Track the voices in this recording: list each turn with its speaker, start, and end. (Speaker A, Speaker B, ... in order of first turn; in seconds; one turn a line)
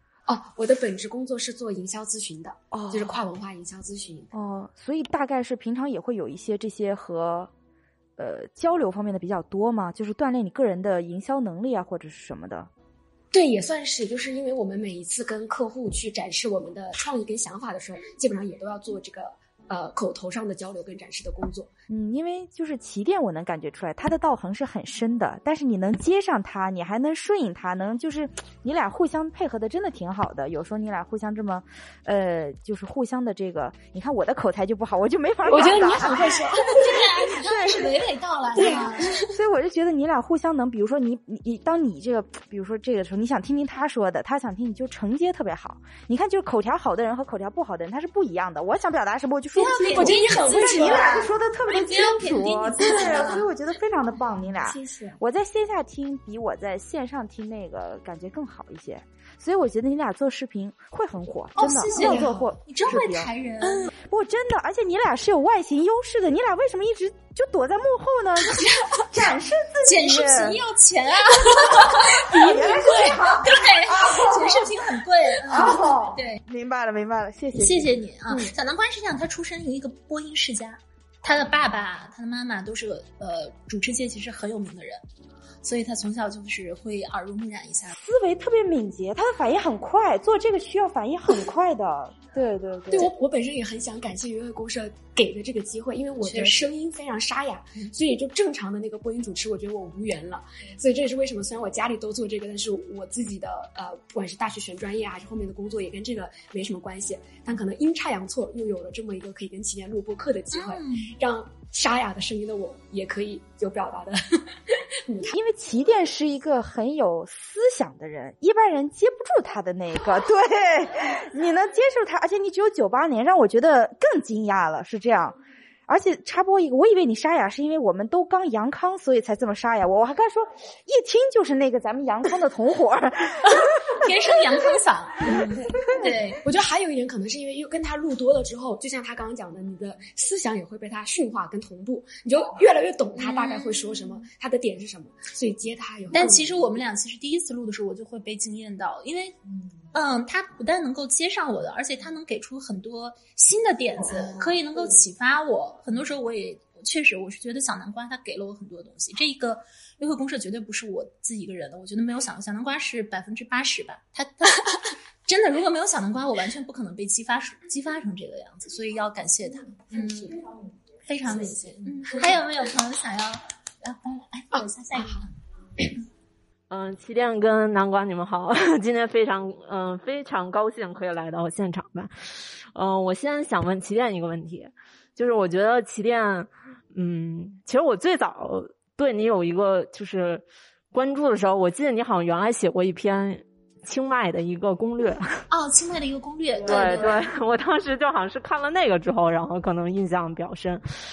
Speaker A: 0.2-4.3
Speaker B: 2.7-3.1
Speaker B: 4.3-7.5
Speaker B: 8.2-12.7
Speaker A: 13.3-21.7
Speaker B: 21.9-36.4
Speaker A: 35.4-37.2
Speaker C: 35.6-39.2
Speaker B: 37.3-38.0
Speaker A: 38.5-39.2
Speaker B: 38.5-63.3
Speaker C: 49.5-53.5
Speaker A: 49.7-51.3
Speaker A: 54.5-55.2
Speaker C: 61.5-63.9
Speaker A: 61.9-62.5
Speaker A: 63.6-63.9
Speaker B: 64.0-70.6
Speaker C: 69.8-76.4
Speaker B: 71.6-78.5
Speaker A: 72.2-73.4
Speaker C: 77.5-85.0
Speaker C: 85.6-87.9
Speaker B: 87.9-93.1
Speaker A: 92.9-115.4
Speaker C: 96.2-96.7
Speaker C: 110.5-111.1
Speaker B: 115.2-134.0
Speaker C: 133.9-136.4
Speaker A: 136.4-146.8
Speaker C: 143.2-144.2
Speaker C: 146.1-149.4
Speaker C: 149.9-170.4
Speaker A: 154.1-154.8
Speaker A: 169.9-170.3
Speaker B: 169.9-171.0
Speaker C: 171.0-175.3
Speaker A: 171.2-172.4
Speaker A: 174.5-175.2
Speaker D: 176.7-195.4
Speaker C: 195.5-197.2
Speaker D: 196.6-200.8